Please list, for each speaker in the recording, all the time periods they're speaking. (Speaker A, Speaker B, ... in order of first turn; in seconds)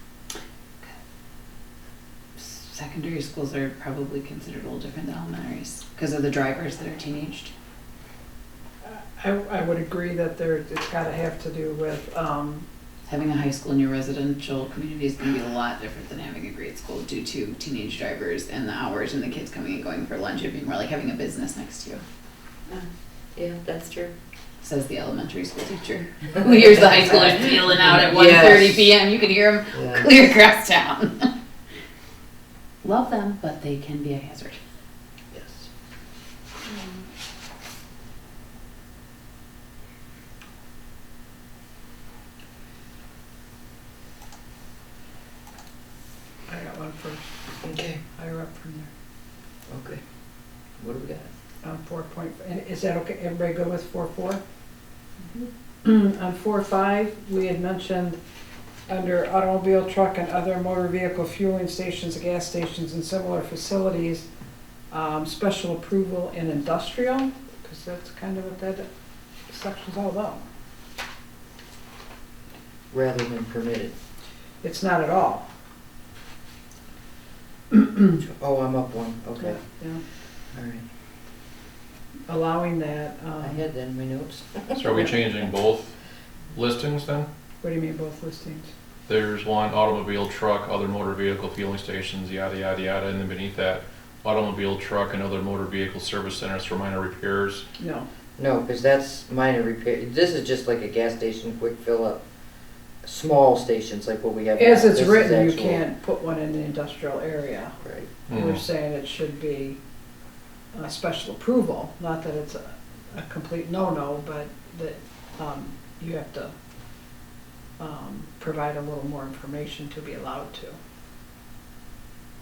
Speaker A: 2.4-7.5, 13.1-22.0, 24.6-31.3, 32.8-34.6
Speaker B: 8.8-12.7, 46.5-47.3, 48.1-48.9, 51.6-54.4, 55.8-58.2, 58.9-64.2, 64.9-68.8, 69.5-70.4, 74.6-75.5, 77.7-78.0, 79.4-80.0, 82.3-83.6, 87.6-88.7, 97.8-98.0, 104.5-107.7, 108.3-109.8, 110.7-116.5, 117.8-120.8
Speaker C: 23.4-24.1, 26.8-27.1, 27.8-29.0, 29.7-30.1, 35.3-35.7, 47.6-48.0, 49.7-50.0, 50.8-51.3, 72.9-73.9, 78.2-79.6, 80.5-80.8, 83.4-85.0, 98.4-102.2, 103.0-105.8, 107.8-108.1
Speaker D: 84.7-85.9, 86.5-87.3, 89.1-97.6, 108.3-108.6